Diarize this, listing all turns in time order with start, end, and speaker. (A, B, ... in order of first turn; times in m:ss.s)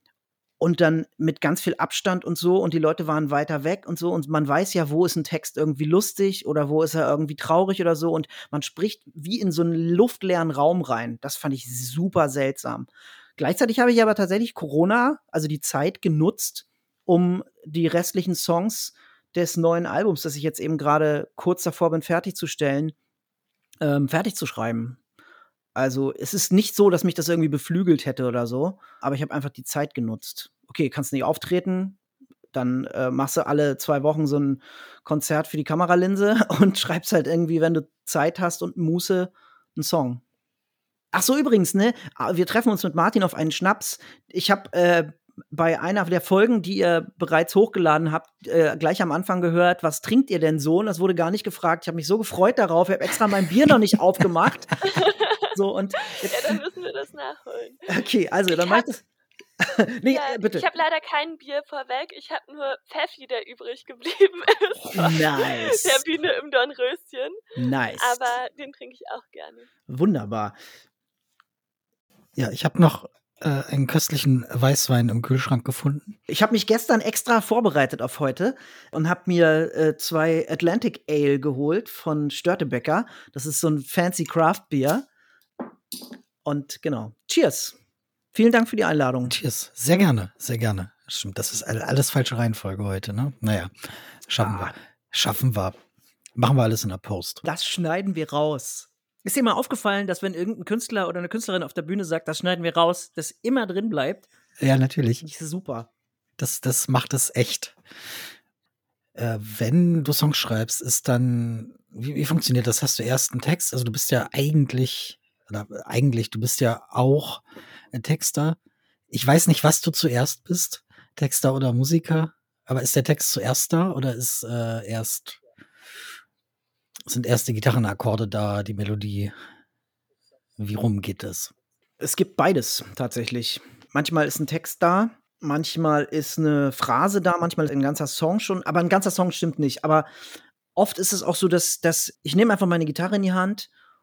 0:00.6-0:23.0 A
0:23.8-0:25.0 A
0:25.8-0:32.0 A
0:32.5-0:40.2 A
0:41.1-0:54.8 A
0:54.8-0:57.9 B
0:55.5-0:56.6 A
0:57.9-0:59.0 A
0:58.5-0:58.8 B
0:59.6-1:00.7 A
1:00.1-1:07.4 B
1:04.9-1:06.0 A
1:07.6-1:08.3 A
1:08.0-1:09.7 B
1:09.9-1:10.6 A
1:12.4-1:16.2 C
1:16.3-1:25.1 A
1:26.4-1:27.8 A
1:28.3-1:29.3 A
1:29.3-1:35.8 C
1:34.4-1:34.7 A
1:36.4-1:37.4 C
1:37.4-1:44.3 A
1:44.6-1:45.3 C
1:45.2-1:45.9 A
1:46.4-1:48.2 C
1:49.2-1:58.6 C
1:59.1-2:05.4 C
2:07.1-2:09.3 C
2:10.6-2:11.5 C
2:12.0-2:20.1 A
2:20.8-2:23.7 A